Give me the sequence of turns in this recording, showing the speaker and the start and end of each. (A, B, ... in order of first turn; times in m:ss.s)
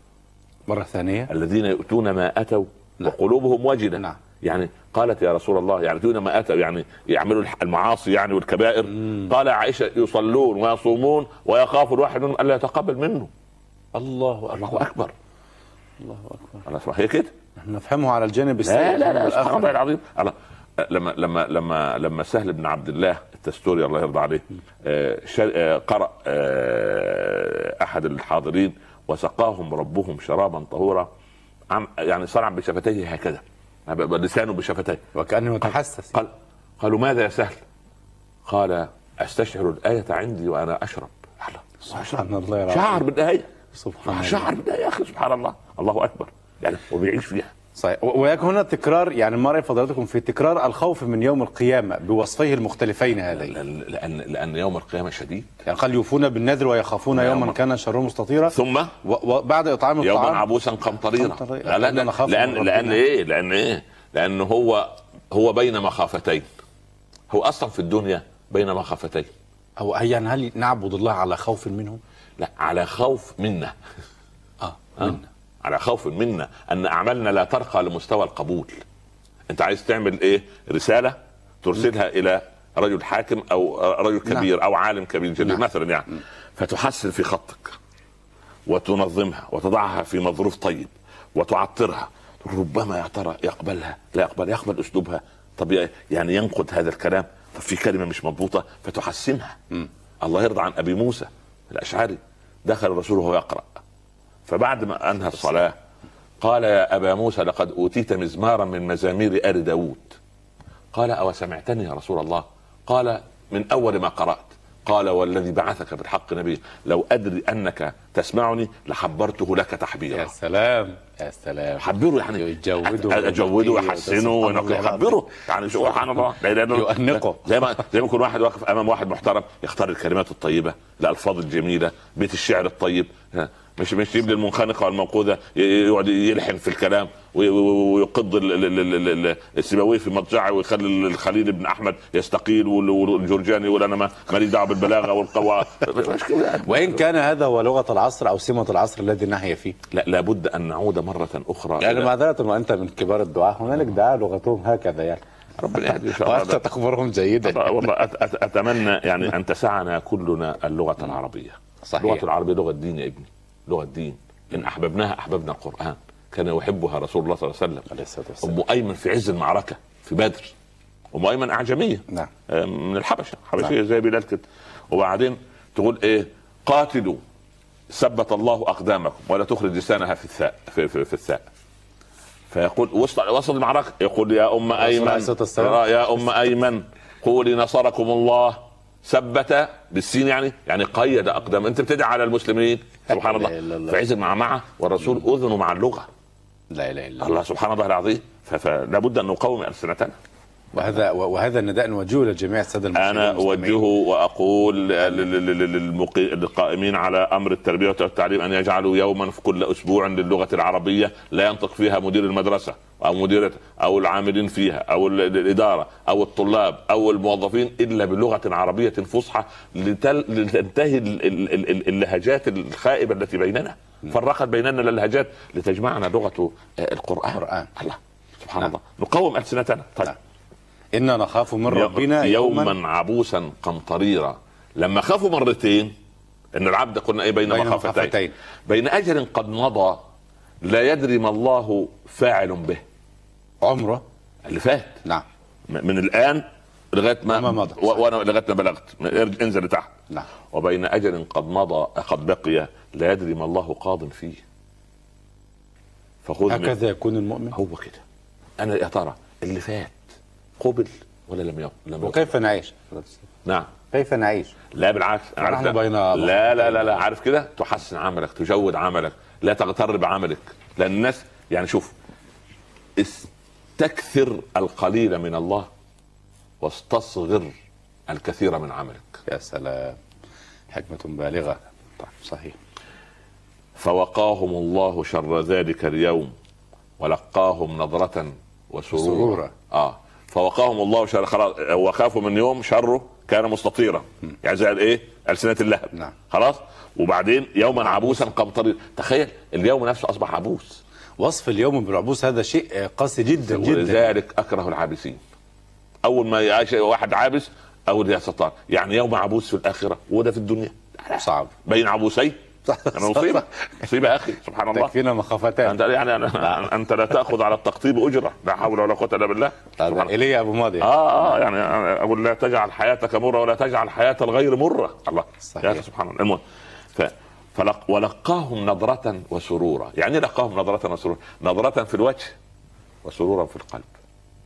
0:00.7-0:01.3 A
0:01.3-0:13.3 B
0:09.0-0:09.3 A
0:13.9-0:14.8 A
0:14.5-0:15.1 B
0:16.0-0:16.6 A
0:16.6-0:17.3 B
0:17.6-0:19.8 A
0:18.6-0:31.1 B
0:31.7-0:35.0 B
0:35.1-0:36.2 A
0:35.6-0:37.6 B
0:38.4-0:43.5 B
0:41.8-0:43.0 A
0:43.7-0:44.5 A
0:44.0-0:47.5 B
0:47.8-0:53.6 A
0:53.3-0:55.6 B
0:55.7-1:00.5 A
0:57.1-0:57.6 B
0:58.5-0:58.9 B
1:00.0-1:06.5 B
1:01.2-1:03.0 A
1:07.3-1:09.3 B
1:09.8-1:12.0 A
1:12.4-1:13.8 B
1:14.6-1:15.2 A
1:15.0-1:18.8 B
1:19.5-1:27.8 B
1:28.7-1:39.6 B
1:40.2-1:43.8 B
1:44.5-1:45.8 B
1:46.4-1:50.2 B
1:50.9-2:00.3 B
2:00.1-2:05.1 A
2:01.8-2:27.0 B
2:06.7-2:07.4 A
2:26.6-2:29.8 A
2:29.9-2:32.1 B
2:31.8-2:35.2 A
2:35.6-2:36.6 B
2:35.9-2:38.0 A
2:37.4-2:50.5 B
2:41.9-2:42.2 A
2:47.9-2:48.6 A
2:51.1-2:57.2 B
2:57.9-3:01.5 B
3:02.5-3:16.1 B
3:04.8-3:06.0 A
3:13.1-3:14.0 A
3:16.7-3:17.4 A
3:17.2-3:20.2 B
3:20.7-3:23.9 A
3:22.9-3:50.2 B
3:47.4-3:47.7 A
3:50.9-3:52.8 A
3:51.7-3:55.9 B
3:56.5-3:58.2 B
3:57.5-3:58.3 A
3:58.7-4:00.0 B
4:00.6-4:02.8 B
4:03.6-4:04.0 A
4:04.5-4:05.0 B
4:05.7-4:09.9 B
4:07.3-4:08.0 A
4:10.5-4:14.4 B
4:16.2-4:16.8 B
4:16.5-4:17.6 A
4:17.5-4:18.0 B
4:18.6-4:20.0 B
4:20.6-4:22.4 B
4:22.0-4:23.2 A
4:23.4-4:23.7 B
4:23.9-4:24.5 A
4:24.7-4:31.9 B
4:25.4-4:27.0 A
4:33.0-4:35.7 B
4:36.6-4:37.5 B
4:38.1-4:39.2 B
4:39.3-4:40.0 A
4:40.7-4:41.6 A
4:42.2-4:42.6 A
4:43.8-4:46.3 B
4:47.0-5:00.8 B
4:48.9-4:49.5 A
4:57.8-4:58.3 A
5:01.2-5:04.1 A
5:03.4-5:05.2 B
5:06.0-5:12.4 B
5:11.2-5:11.5 A
5:12.7-5:13.4 A
5:12.9-5:14.9 B
5:14.7-5:15.8 A
5:15.6-5:20.1 B
5:19.8-5:20.9 A
5:20.8-5:26.4 B
5:25.5-5:25.8 A
5:26.9-5:32.4 B
5:33.0-5:33.9 B